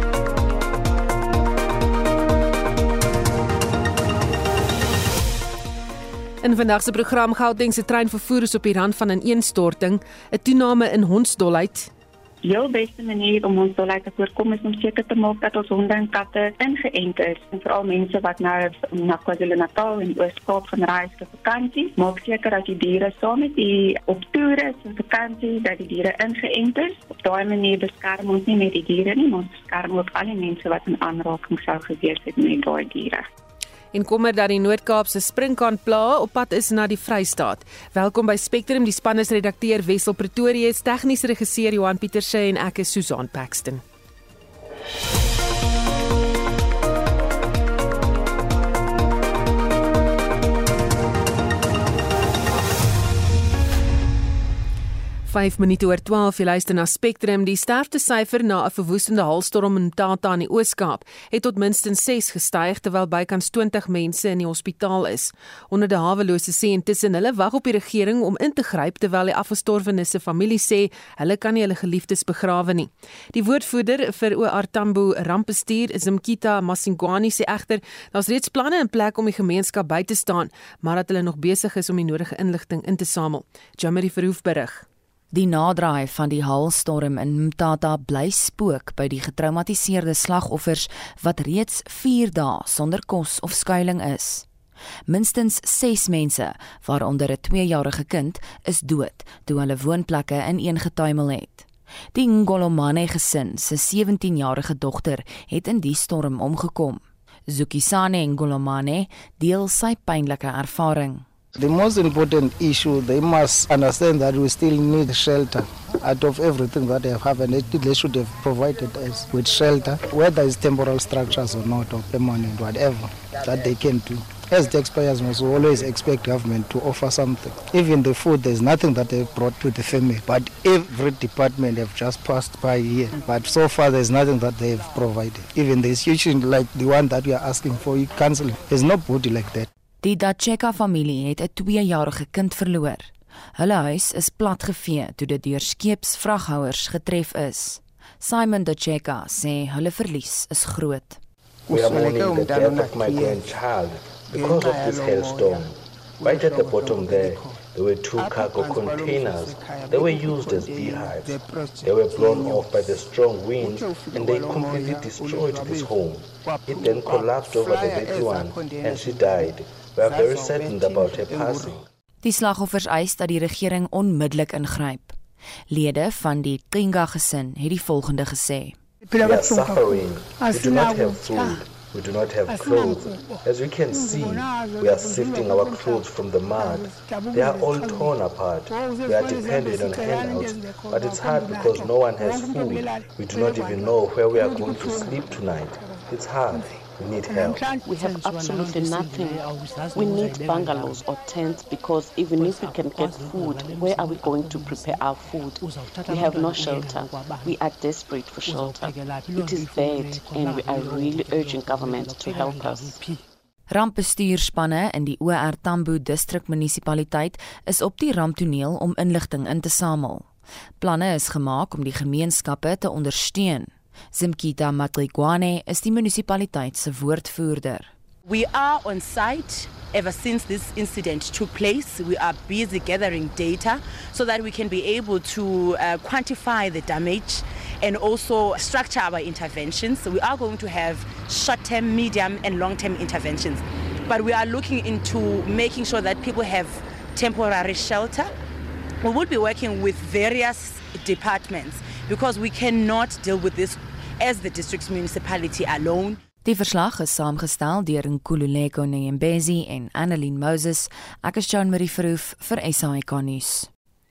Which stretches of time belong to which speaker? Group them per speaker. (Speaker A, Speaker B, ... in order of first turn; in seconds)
Speaker A: 6.4-11.9, 33.9-43.8, 55.3-84.8
Speaker B: 12.4-33.3
Speaker C: 85.3-94.5, 95.1-111.2, 140.0-151.2, 172.2-175.2, 175.7-178.8, 213.7-220.3, 220.8-227.9, 256.4-263.7
Speaker D: 111.5-139.7
Speaker E: 151.7-171.8, 179.2-197.7
Speaker F: 197.8-213.0
Speaker G: 228.2-248.4, 249.0-256.2